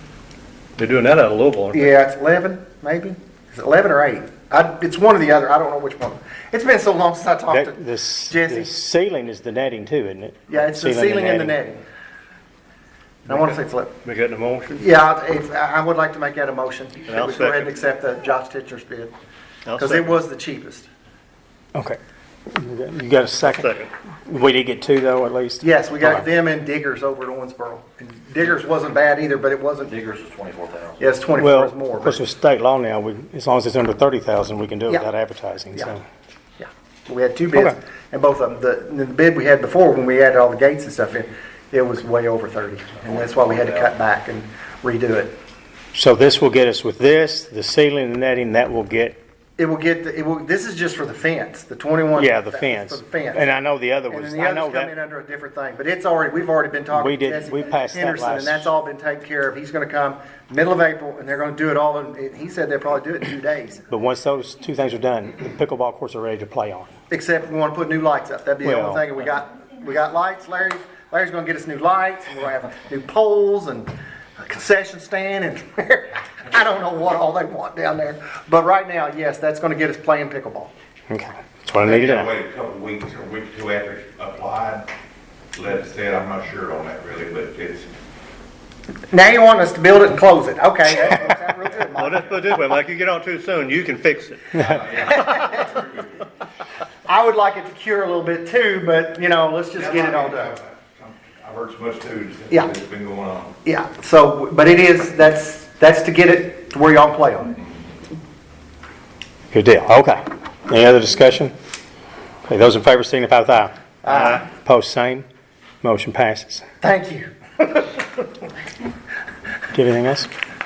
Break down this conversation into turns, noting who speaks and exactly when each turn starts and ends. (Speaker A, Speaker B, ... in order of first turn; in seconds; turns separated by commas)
Speaker A: 0.8-1.9, Speaker B: 1.7-7.8, Speaker C: 7.5-11.6, Speaker B: 8.3-8.7, Speaker B: 10.5-11.8, Speaker A: 13.3-14.9, Speaker B: 13.3-14.0, Speaker B: 14.8-19.1, Speaker A: 17.1-17.8, Speaker A: 19.7-20.2, Speaker B: 19.8-20.9, Speaker C: 21.7-23.7, Speaker A: 23.4-23.9, Speaker C: 24.3-25.6, Speaker B: 25.6-29.9, Speaker D: 29.8-31.2, Speaker B: 31.0-32.2, Speaker C: 31.4-36.0, Speaker B: 36.6-45.4, Speaker D: 43.0-43.9, Speaker C: 45.9-49.2, Speaker B: 49.6-53.5, Speaker C: 52.1-54.9, Speaker B: 54.1-63.8, Speaker C: 56.9-58.7, Speaker C: 63.9-66.9, Speaker B: 67.1-80.7, Speaker C: 68.6-69.0, Speaker C: 81.1-82.3, Speaker E: 81.9-84.9, Speaker E: 85.5-87.9, Speaker B: 89.1-92.4, Speaker A: 91.9-94.6, Speaker E: 94.6-96.3, Speaker B: 95.0-95.7, Speaker B: 97.1-100.6, Speaker E: 99.8-103.5, Speaker B: 103.7-107.5, Speaker C: 109.5-111.5, Speaker C: 112.5-113.7, Speaker B: 114.0-114.5, Speaker C: 114.5-115.3, Speaker C: 115.8-116.7, Speaker B: 116.8-118.0, Speaker C: 119.7-120.3